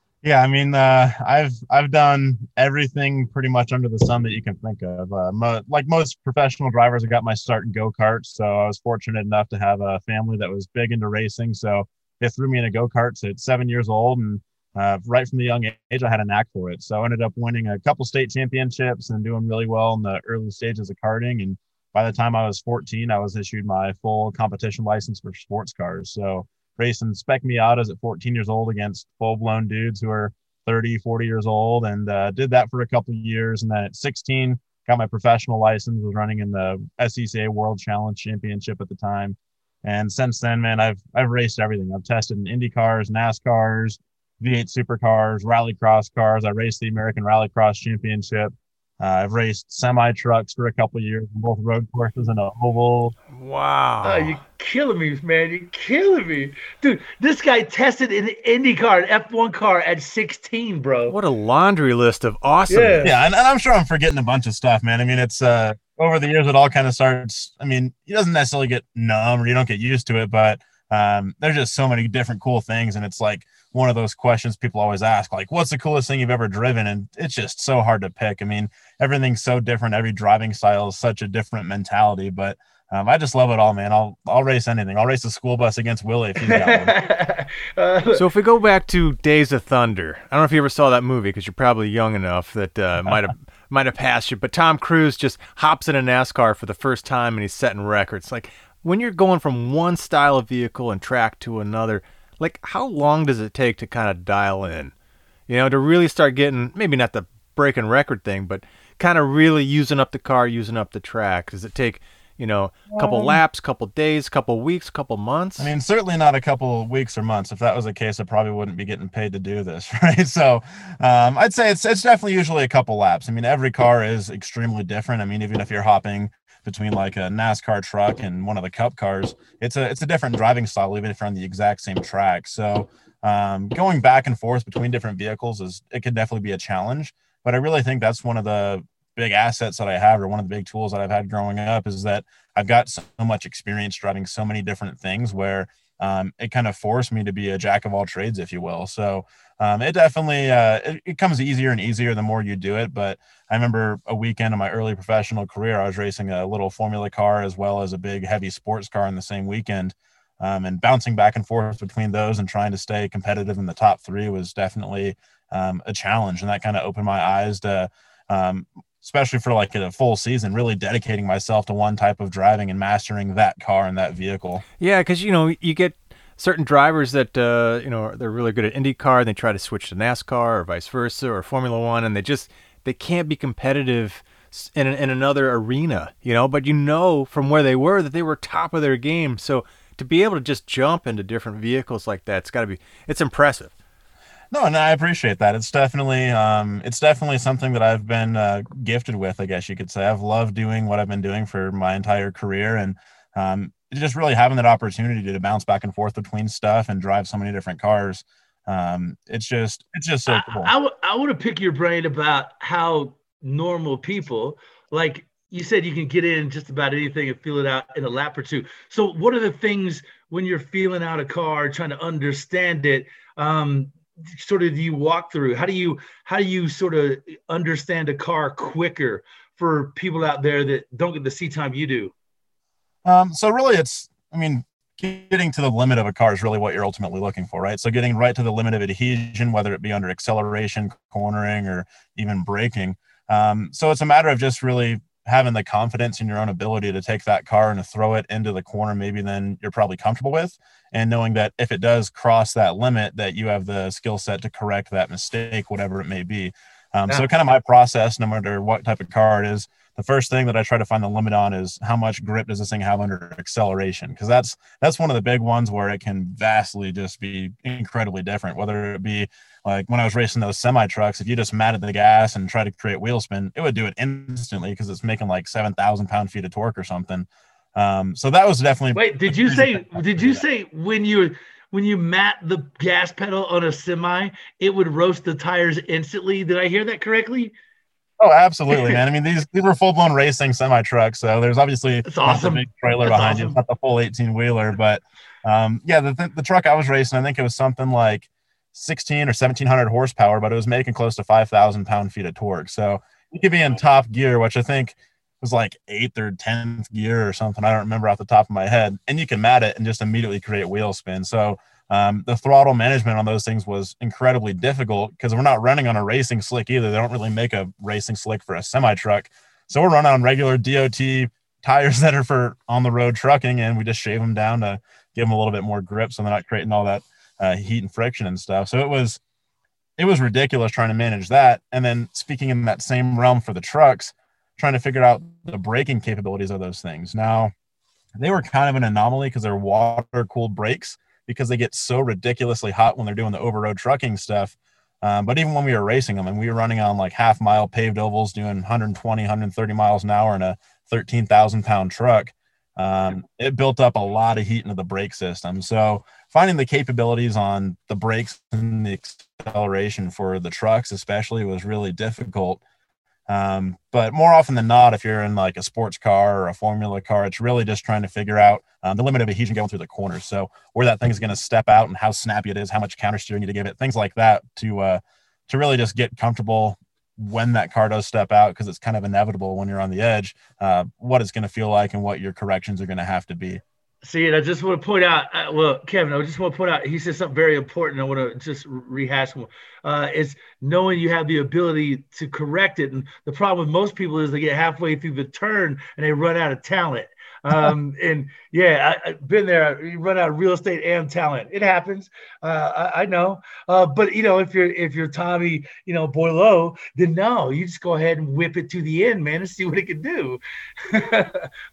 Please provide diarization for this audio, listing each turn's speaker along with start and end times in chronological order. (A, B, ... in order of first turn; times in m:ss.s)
0:00.2-0:53.2 A
0:53.3-0:54.4 B
0:54.0-1:01.2 C
1:01.1-1:03.1 B
1:02.7-1:03.1 C
1:03.0-1:26.9 A
1:26.4-1:28.2 C
1:28.1-1:44.9 B
1:45.5-1:55.7 B
1:52.9-1:53.4 A
1:55.6-2:54.6 A
2:54.8-3:13.7 B
3:14.5-3:30.7 A
3:30.3-3:52.1 C
3:53.0-4:40.4 A
4:39.0-4:47.6 C
4:48.2-5:29.2 A
4:52.0-4:53.6 C
5:30.0-5:37.5 A
5:38.2-6:02.6 A
6:03.3-6:23.6 A
6:24.0-6:51.5 C